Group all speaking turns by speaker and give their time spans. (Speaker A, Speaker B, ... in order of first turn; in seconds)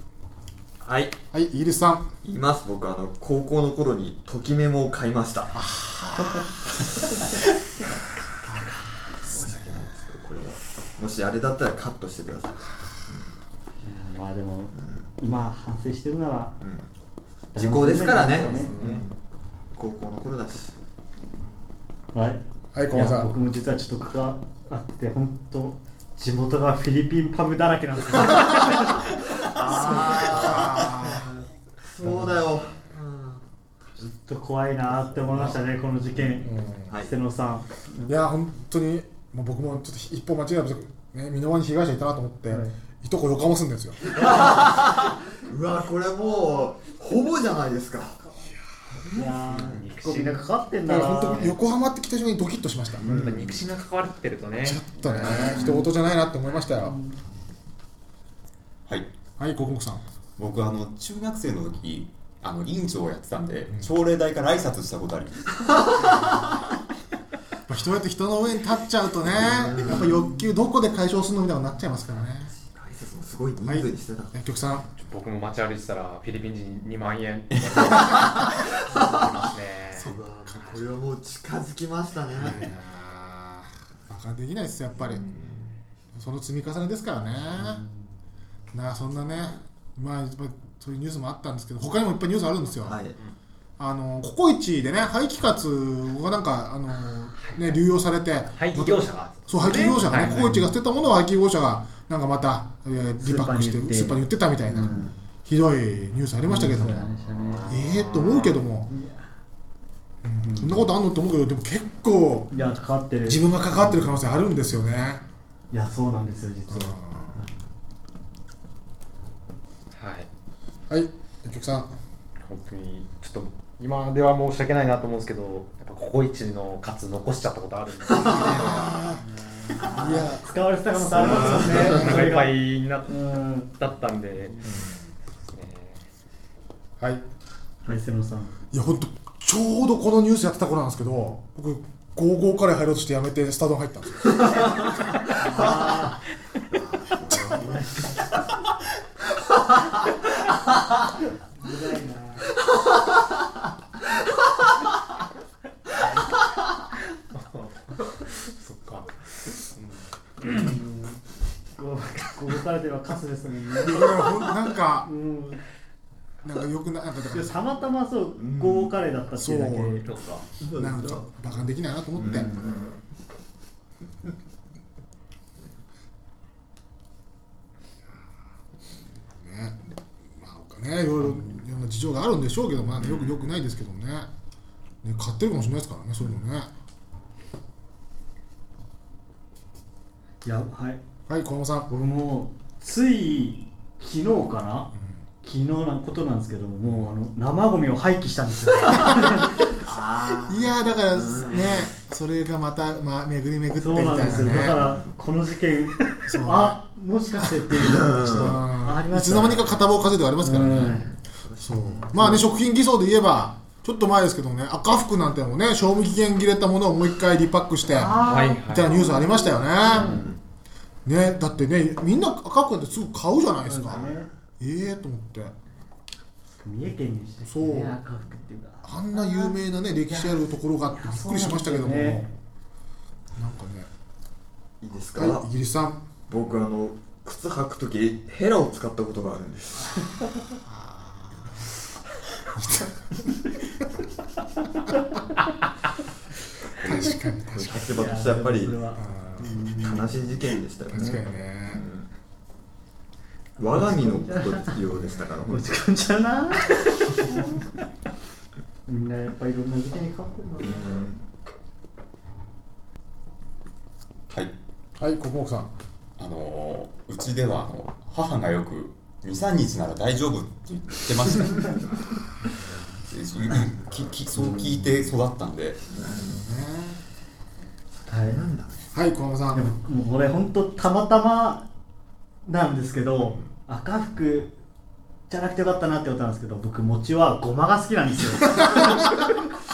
Speaker A: 0.8-1.1, 2.2-5.6, 9.2-13.3, 14.8-15.0, 16.6-16.9, 17.5-19.1, 19.7-20.7, 29.4-31.2, 31.8-33.4, 44.1-48.2, 48.9-49.8, 53.0-53.6, 55.3-55.7, 69.2-70.2, 72.1-74.4, 80.0-82.6, 85.0-85.7, 92.8-93.2, 128.1-128.6, 131.2-132.2, 146.7-148.1, 168.4-168.9, 170.6-171.3, 172.2-173.0, 183.0-183.4, 199.8-201.9, 204.2-205.1, 207.7-208.6, 210.8-212.4, 219.9-220.4, 223.9-224.3, 234.8-235.5, 236.3-240.0, 247.5-248.8, 249.7-252.1, 253.6-255.7, 260.6-261.2, 274.4-274.9, 275.9-276.4, 278.1-278.9
Speaker B: 1.3-2.1, 5.5-6.4, 9.2-9.5, 22.7-23.3, 29.7-31.2, 32.0-32.5, 35.3-35.6, 36.4-36.9, 38.0-44.1, 50.9-53.1, 54.6-57.0, 59.4-60.0, 67.7-72.5, 73.6-74.9, 79.9-80.8, 82.3-85.2, 86.1-87.8, 88.7-93.0, 93.8-107.1, 107.7-108.9, 110.2-112.5, 113.2-115.2, 116.7-117.4, 120.9-121.9, 128.2-129.2, 129.9-130.6, 131.2-131.9, 134.7-135.0, 137.0-137.2, 138.7-144.8, 163.8-165.1, 166.4-167.6, 169.3-170.0, 170.7-172.5, 179.4-179.8, 180.4-184.3, 185.0-186.7, 191.3-191.9, 194.9-195.2, 200.4-204.9, 206.2-206.8, 207.4-211.0, 211.6-220.2, 221.0-225.5, 227.4-228.0, 228.8-232.3, 233.4-233.9, 235.2-236.0, 240.6-241.7, 242.4-243.2, 246.8-248.0, 248.9-249.6, 250.9-251.8, 265.0-265.7, 276.1-277.0, 278.9-279.7, 283.2-283.5
Speaker C: 13.8-16.6, 17.5-18.7, 22.1-31.3, 34.0-37.7, 42.5-42.8, 49.1-51.5, 55.3-55.9, 56.8-57.2, 87.5-88.1, 100.0-100.7, 103.2-105.1, 106.4-107.7, 108.9-109.3, 110.4-110.9, 112.5-114.1, 115.7-117.5, 129.1-132.6, 133.1-133.7, 137.9-138.5, 145.4-146.2, 147.4-148.1, 151.6-152.5, 160.4-161.2, 161.8-165.6, 167.3-170.1, 190.4-191.0, 191.9-194.9, 195.4-199.6, 203.7-209.8, 210.4-211.1, 212.2-212.5, 217.9-220.2, 223.7-224.3, 226.6-232.3, 247.8-250.1, 253.6-254.8, 255.3-257.5, 258.9-261.0, 278.1-278.4, 279.5-281.7, 282.4-284.6, 285.3-289.3
Speaker D: 49.5-51.2, 53.0-55.7, 75.0-80.1, 97.4-97.7, 98.5-100.5, 107.4-108.6, 119.9-120.3, 122.4-129.0, 131.2-134.6, 135.5-136.0, 157.3-160.6, 170.0-170.4, 218.2-219.0
Speaker E: 60.4-65.8, 264.3-264.6, 266.2-272.0, 272.9-275.8